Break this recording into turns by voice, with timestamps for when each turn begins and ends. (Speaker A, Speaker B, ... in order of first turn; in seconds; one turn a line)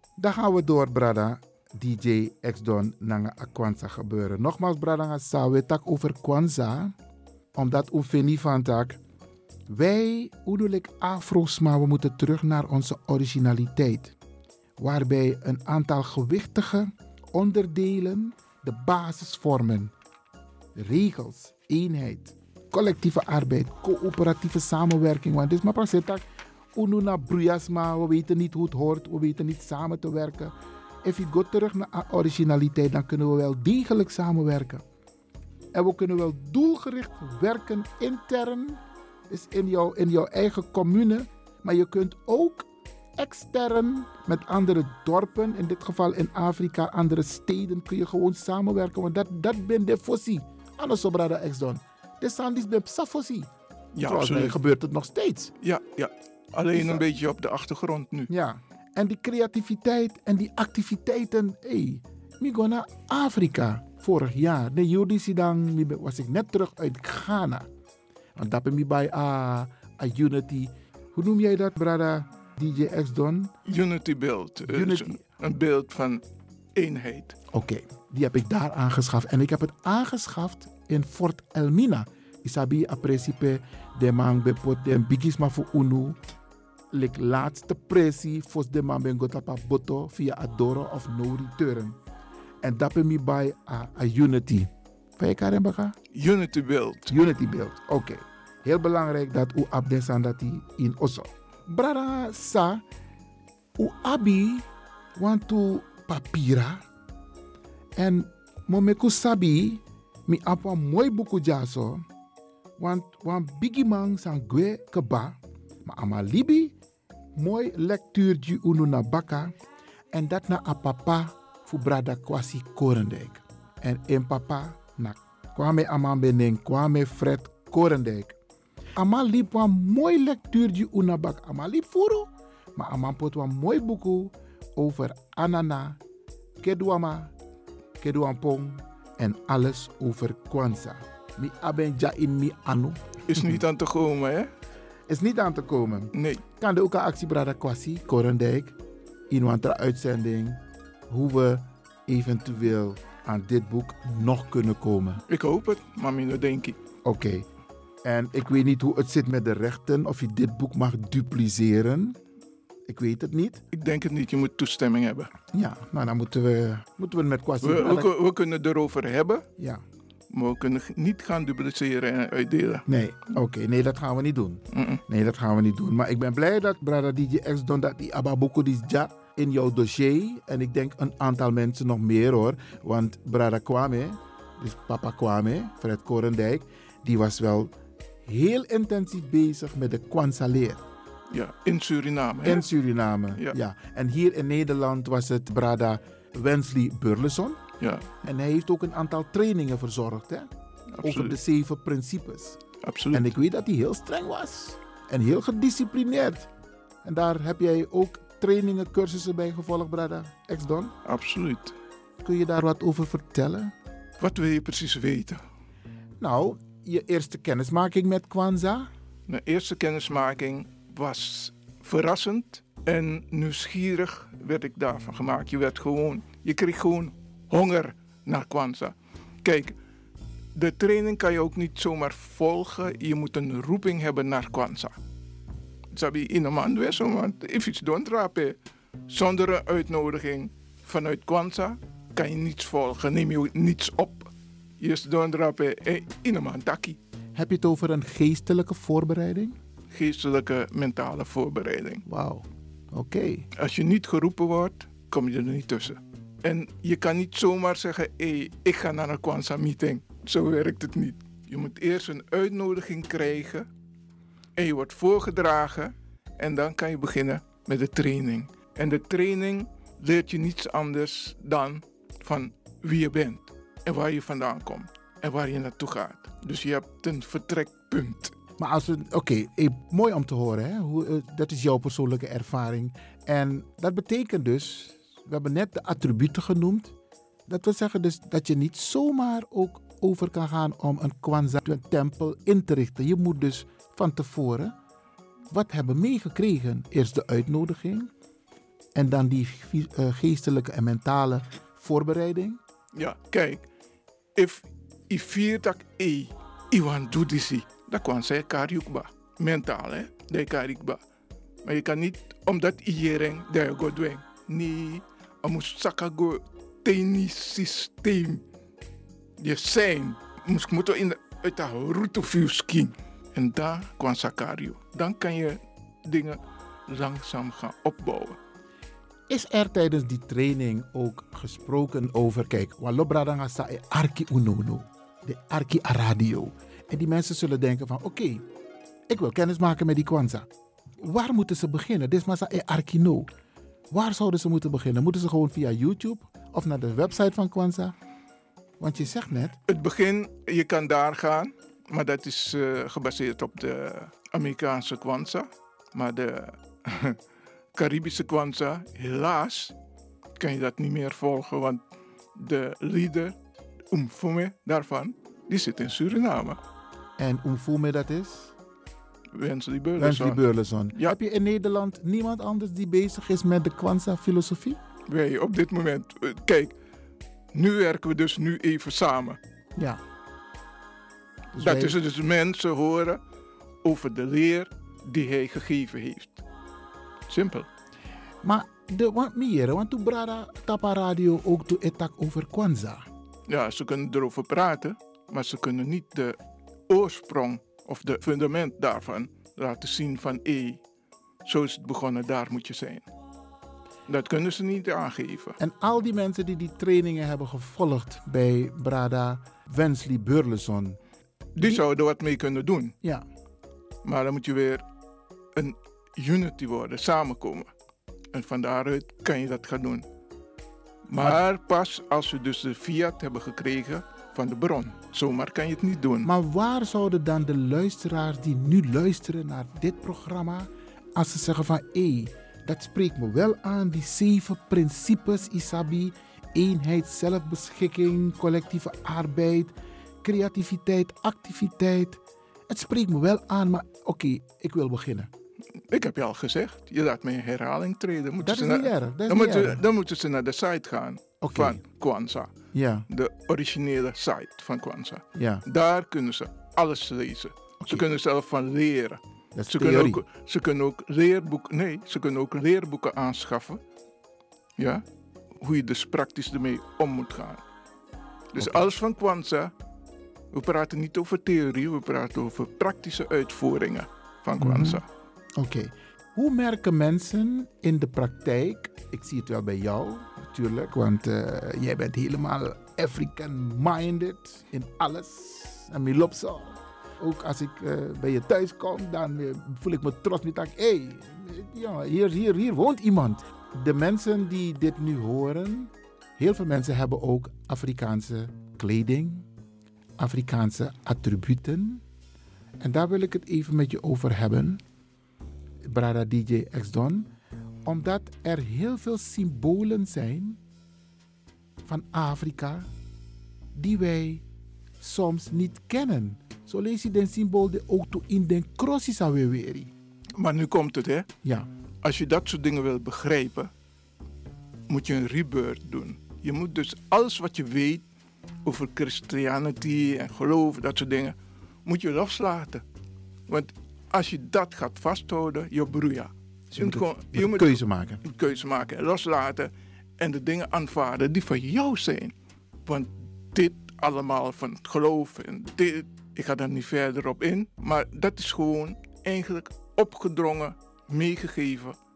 Speaker A: 0.2-6.9
Speaker A: 7.5-9.0
Speaker A: 9.7-14.1
Speaker A: 14.8-19.9
Speaker A: 20.7-26.2
Speaker A: 26.7-34.8
Speaker A: 35.7-53.5
Speaker B: 53.9-54.6
Speaker A: 54.0-55.5
Speaker B: 55.6-58.3
Speaker A: 56.7-57.1
Speaker A: 58.3-67.7
Speaker A: 68.4-73.5
Speaker B: 73.7-76.2
Speaker A: 74.6-75.2
Speaker B: 76.7-77.4
Speaker A: 77.5-86.2
Speaker A: 86.9-92.0
Speaker A: 92.6-96.0
Speaker B: 96.1-97.1
Speaker A: 97.1-102.8
Speaker A: 103.8-106.8
Speaker A: 108.0-112.0
Speaker A: 112.8-116.7
Speaker A: 117.3-119.5
Speaker A: 120.1-128.4
Speaker A: 129.0-136.0
Speaker A: 136.6-137.3
Speaker A: 138.0-143.6
Speaker B: 143.3-144.5
Speaker A: 145.1-148.8
Speaker B: 146.1-146.4
Speaker A: 149.3-155.2
Speaker B: 155.3-156.8
Speaker A: 157.0-157.4
Speaker A: 158.0-162.2
Speaker A: 162.9-163.6
Speaker B: 163.7-165.3
Speaker A: 165.5-168.1
Speaker B: 167.6-169.4
Speaker A: 169.6-169.8
Speaker B: 170.3-172.8
Speaker A: 172.9-190.8
Speaker B: 174.7-175.0
Speaker B: 191.3-192.7
Speaker A: 192.4-197.6
Speaker B: 197.8-198.2
Speaker A: 198.2-200.5
Speaker B: 200.9-201.4
Speaker A: 201.0-202.6
Speaker B: 202.8-203.3
Speaker A: 203.1-206.5
Speaker A: 207.0-210.9
Speaker B: 211.0-211.8
Speaker A: 212.2-213.7
Speaker B: 214.2-215.4
Speaker A: 216.2-218.9
Speaker B: 219.3-229.8
Speaker B: 230.5-235.0
Speaker B: 235.9-238.6
Speaker B: 239.1-244.3
Speaker B: 244.8-247.0
Speaker A: 247.3-249.6
Speaker B: 249.9-252.0
Speaker A: 252.1-253.5
Speaker B: 253.6-263.7
Speaker B: 264.6-278.4
Speaker A: 278.6-286.9
Speaker A: 287.5-294.8
Speaker A: 295.5-298.1
Speaker A: 298.9-302.6
Speaker B: 303.0-303.6
Speaker B: 304.4-311.0
Speaker B: 311.6-318.4
Speaker B: 319.4-328.4
Speaker A: 329.3-338.4
Speaker A: 339.1-340.5
Speaker A: 341.0-343.3
Speaker A: 343.9-347.9
Speaker A: 348.8-349.6
Speaker B: 349.7-357.2
Speaker B: 357.8-359.8
Speaker B: 360.4-361.8
Speaker B: 362.4-363.4
Speaker B: 363.9-366.6
Speaker A: 367.2-368.5
Speaker B: 369.3-370.4
Speaker A: 370.0-374.8
Speaker B: 375.1-376.7
Speaker B: 377.5-379.4
Speaker A: 379.8-380.0
Speaker A: 381.5-382.0
Speaker B: 381.6-383.2
Speaker B: 383.8-386.4
Speaker B: 387.3-387.7
Speaker A: 388.4-393.1
Speaker B: 393.5-396.4
Speaker B: 396.9-400.8
Speaker B: 401.4-403.1
Speaker B: 404.1-405.6
Speaker A: 405.6-411.0
Speaker B: 411.6-413.0
Speaker A: 411.6-411.8
Speaker B: 414.0-414.9
Speaker B: 415.6-417.7
Speaker B: 418.3-420.0
Speaker B: 421.1-426.3
Speaker A: 421.1-421.4
Speaker A: 426.2-445.3
Speaker B: 445.9-452.5
Speaker A: 448.4-449.8
Speaker A: 451.4-451.8
Speaker A: 452.7-453.1
Speaker B: 453.1-463.8
Speaker A: 455.3-455.6
Speaker A: 457.8-458.1
Speaker A: 459.5-460.2
Speaker B: 464.8-465.0
Speaker B: 465.6-467.6
Speaker B: 468.5-469.7
Speaker A: 468.6-468.8
Speaker B: 470.5-475.1
Speaker A: 474.6-475.0
Speaker A: 475.6-499.5
Speaker A: 500.2-502.0
Speaker A: 502.8-504.8
Speaker A: 505.8-507.3
Speaker A: 507.9-510.6
Speaker A: 511.9-512.9
Speaker A: 513.8-514.4
Speaker A: 515.0-519.9
Speaker B: 520.4-521.3
Speaker A: 521.4-521.7
Speaker B: 522.0-523.7
Speaker B: 524.9-528.0
Speaker B: 528.6-532.8
Speaker B: 533.5-542.3
Speaker A: 536.7-538.2
Speaker B: 542.9-552.0